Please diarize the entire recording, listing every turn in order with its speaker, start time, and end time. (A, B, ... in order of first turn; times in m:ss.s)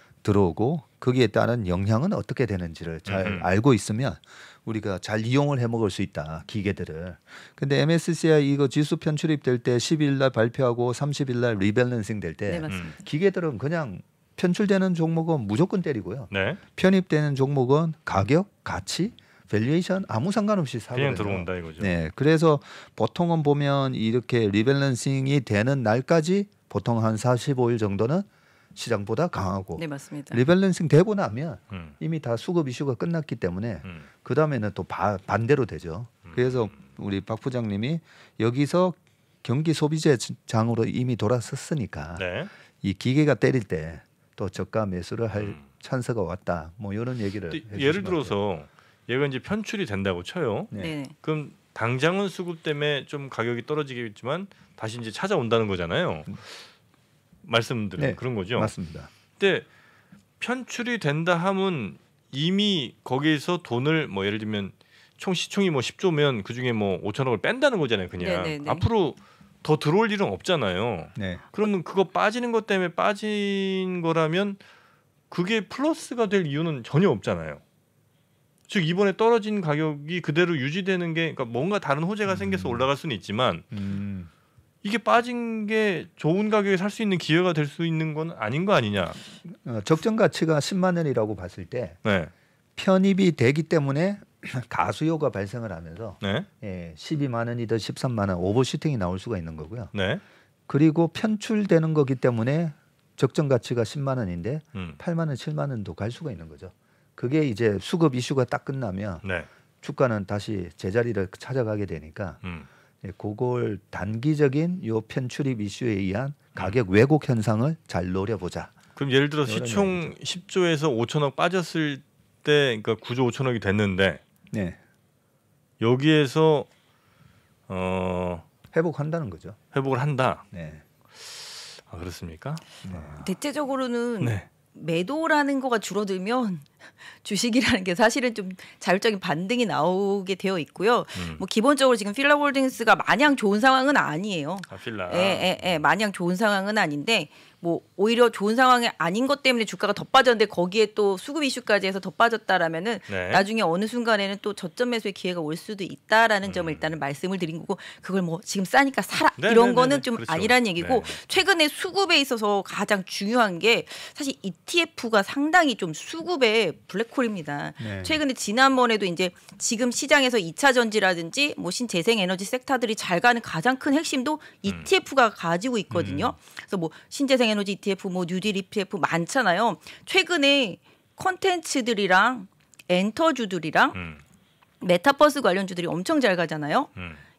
0:00.2-0:42.3 A
0:03.0-0:03.5 B
0:12.5-0:13.0 C
0:12.7-0:12.9 B
0:16.3-0:16.6 B
0:20.9-0:22.0 B
0:29.8-0:30.4 C
0:36.3-0:36.8 B
0:42.2-0:42.5 B
0:42.8-0:48.4 A
0:45.4-0:45.6 B
0:47.5-0:56.6 B
0:50.7-0:51.0 A
0:50.8-0:51.2 C
0:57.4-0:58.7 B
0:58.0-0:59.1 A
0:59.4-0:59.7 B
1:00.4-1:14.6 B
1:08.2-1:08.8 C
1:11.2-1:11.4 A
1:15.3-1:17.6 B
1:18.7-1:23.6 B
1:22.3-1:22.9 A
1:23.7-1:24.3 A
1:24.8-1:29.2 B
1:29.5-1:32.0 A
1:32.0-1:32.3 B
1:32.8-1:39.9 A
1:36.2-1:36.5 B
1:39.9-1:40.2 B
1:40.7-1:49.2 A
1:49.2-1:49.5 B
1:49.8-1:52.4 A
1:53.0-1:58.8 A
1:59.0-2:04.2 B
1:59.5-2:00.1 A
2:04.5-2:04.8 A
2:05.8-2:06.7 B
2:07.7-2:08.4 B
2:08.7-2:09.6 A
2:09.7-2:10.4 B
2:10.5-2:10.8 A
2:11.2-2:13.2 B
2:12.8-2:13.2 A
2:13.2-3:04.0 C
2:14.2-2:14.5 B
2:21.2-2:21.4 B
2:24.7-2:25.5 B
2:33.1-2:33.5 B
2:36.4-2:36.9 B
2:39.4-2:41.2 B
2:47.8-2:48.2 A
2:55.9-2:56.4 A
3:03.9-3:04.2 B
3:04.8-3:06.9 C
3:07.0-3:07.2 B